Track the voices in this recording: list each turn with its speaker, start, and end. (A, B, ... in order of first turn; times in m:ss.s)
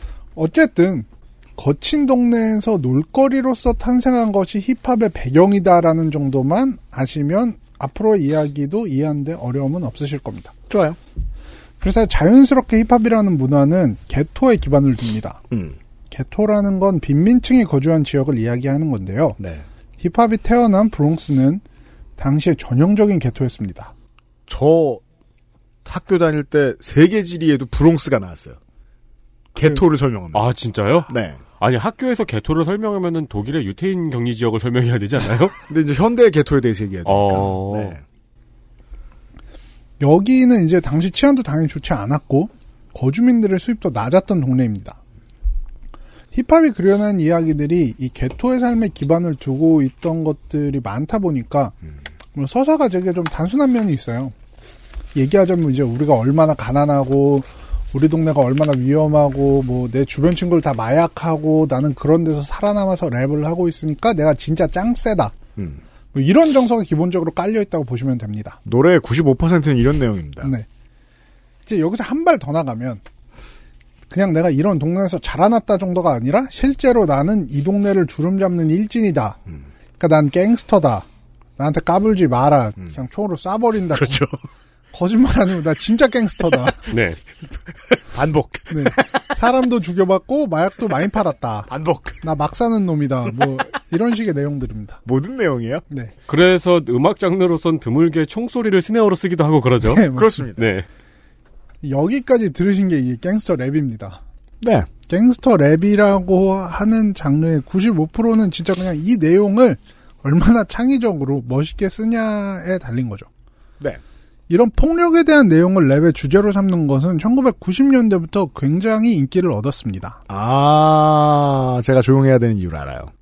0:00.4-0:10.5 A
0:10.7-0:11.0 B
0:11.8-0:15.4 A
0:15.5-0:15.8 B
0:16.1-0:19.4 A
0:19.4-0:19.6 B
0:20.0-0:21.6 A
0:22.2-0:23.9 A
0:24.5-0:25.0 B
0:25.8-0:28.6 B
0:29.5-0:30.5 B
0:30.3-0:35.6 C
0:31.1-0:31.4 B
0:35.7-0:38.0 B
0:37.0-0:38.0 C
0:40.0-0:45.0 A
0:46.3-0:51.8 A
0:52.3-0:54.3 A
0:55.1-1:05.3 A
1:05.6-1:05.8 B
1:06.1-1:08.6 A
1:08.6-1:10.5 B
1:10.4-1:10.7 A
1:11.6-1:13.0 A
1:14.1-1:19.4 A
1:20.0-1:21.0 A
1:21.6-1:24.3 A
1:23.9-1:24.4 B
1:24.9-1:26.9 A
1:26.9-1:27.2 C
1:27.9-1:29.2 B
1:28.7-1:35.0 A
1:31.7-1:32.2 B
1:35.0-1:35.8 B
1:36.3-1:40.8 C
1:39.8-1:40.5 A
1:40.1-1:40.7 B
1:41.8-1:44.2 A
1:44.6-1:44.9 B
1:45.1-1:53.3 A
1:54.5-2:00.2 A
2:00.3-2:03.1 B